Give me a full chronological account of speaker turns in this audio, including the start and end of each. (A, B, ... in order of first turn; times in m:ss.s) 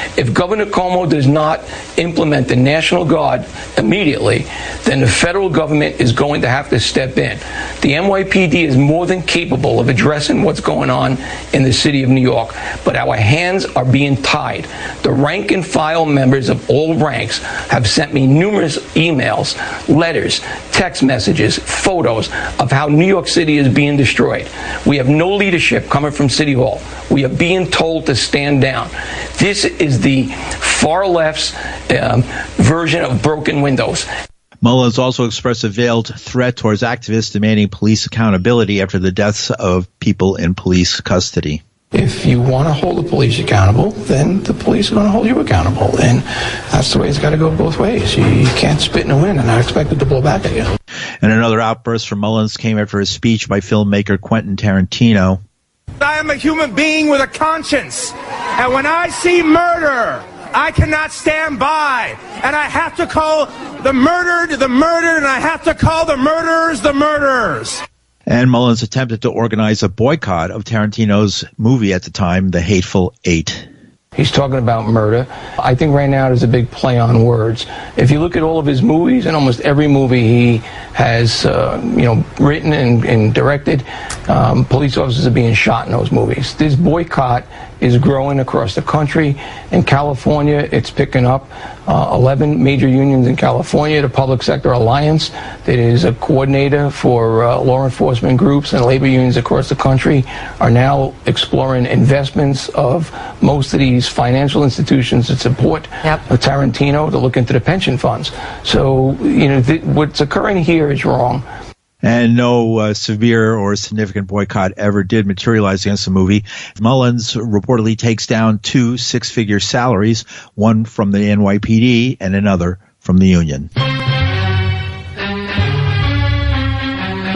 0:00.2-0:34.0 A
0:34.6-0:41.6 B
0:41.9-0:46.2 A
0:46.7-0:50.6 A
0:51.2-0:55.4 B
0:56.0-1:07.8 C
1:08.3-1:13.7 B
1:14.2-1:51.4 A
1:52.0-2:03.7 B